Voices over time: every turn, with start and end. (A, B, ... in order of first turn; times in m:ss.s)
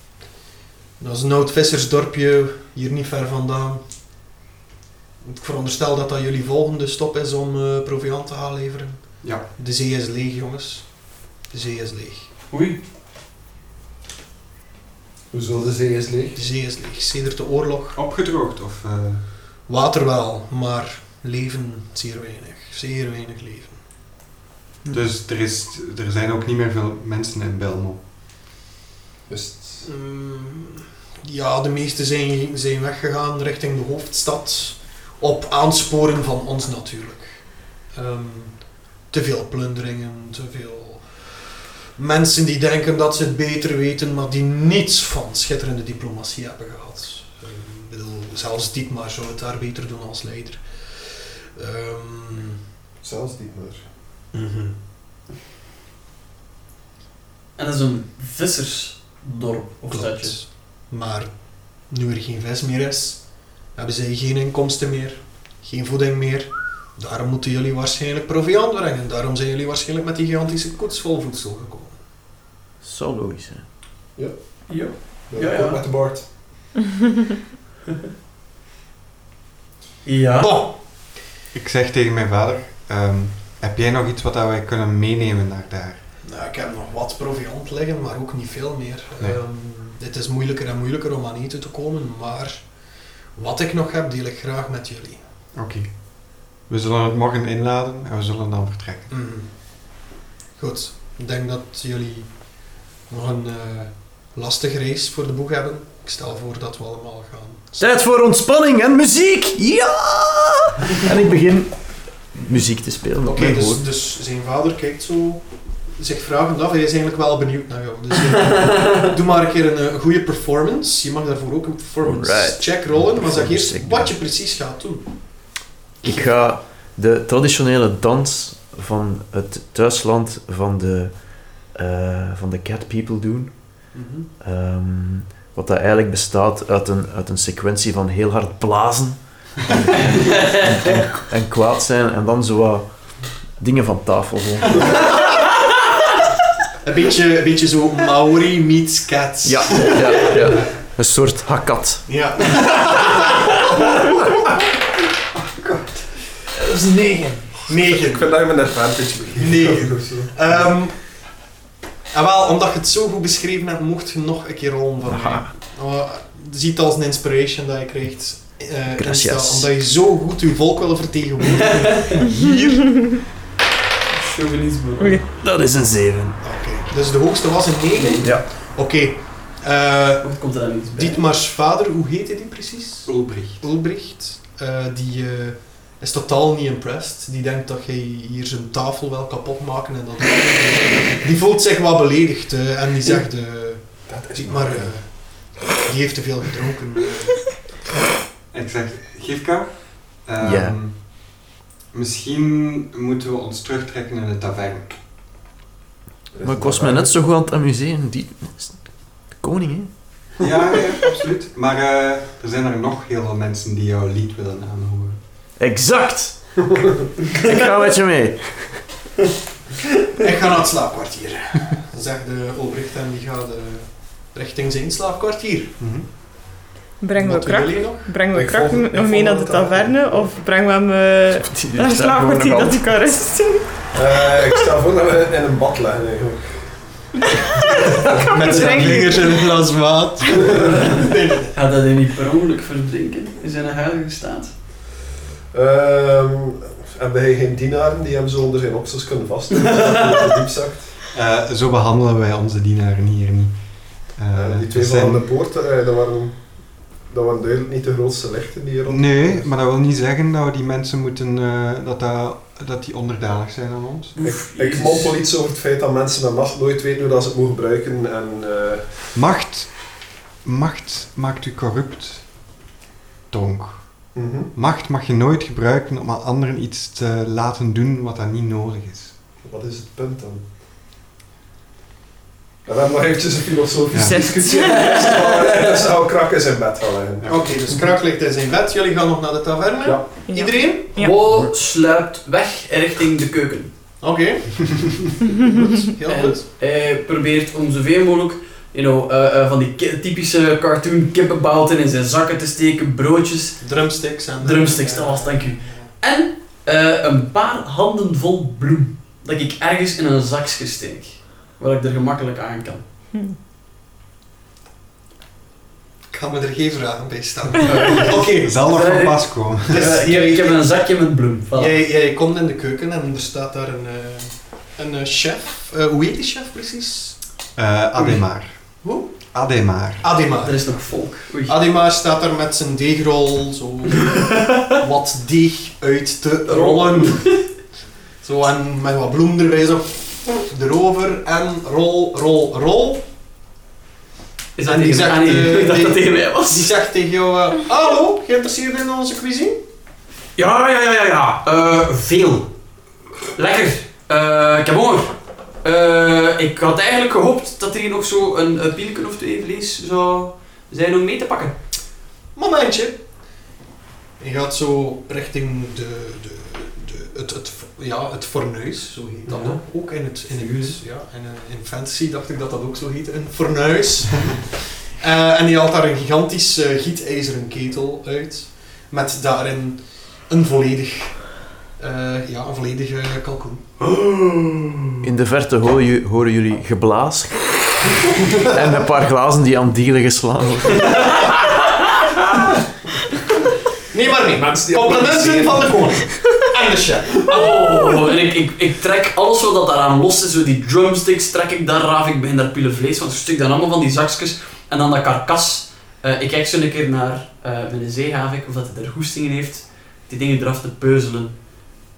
0:01.0-0:03.8 A
0:05.2-0:12.3 A
0:12.5-0:12.8 B
0:15.3-0:16.4 C
0:16.3-0:18.0 A
0:17.9-0:19.2 D
0:19.6-0:23.8 A
0:24.9-0:28.0 D
0:29.3-0:29.8 C
0:29.8-0:52.6 A
0:53.0-0:53.8 C
0:54.3-0:54.8 A
0:57.6-1:00.4 B
0:59.9-1:12.0 A
1:12.8-1:13.6 E
1:14.1-1:16.3 C
1:14.7-1:15.8 B
1:20.0-1:20.5 B
1:20.4-1:20.8 A
1:21.5-1:26.0 D
1:26.2-1:35.2 A
1:35.5-1:39.1 D
1:39.1-1:47.8 A
1:47.8-1:53.8 E
1:53.2-2:06.5 A
2:02.0-2:04.1 E
2:06.0-2:25.2 E
2:13.9-2:14.3 A
2:26.8-2:30.7 A
2:29.4-2:32.1 E
2:32.1-2:33.5 A
2:35.3-2:36.1 D
2:36.6-2:37.4 B
2:37.7-2:38.5 A
2:37.7-2:40.5 C
2:39.4-2:41.4 A
2:42.1-2:53.2 A
2:45.0-2:45.5 E
2:49.0-2:49.7 E
2:54.1-2:55.2 B
2:55.0-2:55.2 F
2:55.3-2:56.4 E
2:56.4-3:00.4 A
2:58.0-2:58.2 B
3:00.2-3:01.2 B
3:00.9-3:17.7 A
3:03.0-3:03.6 D
3:14.0-3:15.1 C
3:18.5-3:25.0 D
3:20.4-3:20.8 E
3:26.3-3:27.2 C
3:26.4-3:30.4 E
3:30.4-3:35.2 D
3:35.6-3:36.5 E
3:37.4-3:38.9 E
3:40.2-3:45.7 A
3:45.8-3:46.1 D
3:47.0-3:54.6 F
3:47.2-3:48.2 A
3:48.3-3:50.3 C
3:51.3-3:52.9 E
3:53.9-3:57.1 C
3:57.8-4:01.6 A
3:58.1-3:59.5 F
4:00.4-4:00.7 C
4:00.5-4:01.0 B
4:01.5-4:04.5 B
4:05.5-4:10.9 C
4:09.5-4:10.3 B
4:11.1-4:15.3 D
4:14.3-4:19.5 C
4:18.9-4:24.1 D
4:24.2-4:25.2 B
4:24.2-4:28.9 C
4:29.1-4:32.6 D
4:33.3-4:39.2 D
4:34.1-4:34.5 C
4:39.4-4:40.4 C
4:42.6-4:47.8 C
4:43.9-4:44.2 D
4:43.9-4:45.1 F
4:44.5-4:45.7 B
4:47.2-4:47.5 D
4:47.3-4:50.9 A
4:49.8-4:50.2 C
4:50.2-4:51.2 F
4:51.0-4:53.7 B
4:54.0-4:55.0 A
4:55.5-4:56.4 A
4:56.1-5:03.7 B
5:03.6-5:05.9 A
5:04.4-5:12.8 B
5:16.1-5:18.7 A
5:18.3-5:20.0 D
5:18.7-5:21.8 B
5:19.7-5:20.7 A
5:21.5-5:27.2 A
5:27.6-5:30.1 D
5:28.0-5:28.2 B
5:28.8-5:29.1 A
5:30.0-5:37.6 A
5:30.4-5:31.6 B
5:36.5-5:37.4 B
5:38.2-5:43.0 A
5:44.6-5:46.7 B
5:44.6-5:49.6 A
5:50.4-5:52.5 B
5:53.4-6:01.6 B
6:02.3-6:03.1 A
6:04.2-6:24.9 A
6:09.3-6:09.6 B
6:25.0-6:31.2 E
6:33.9-6:37.5 A
6:34.3-6:36.3 C
6:37.3-6:51.4 B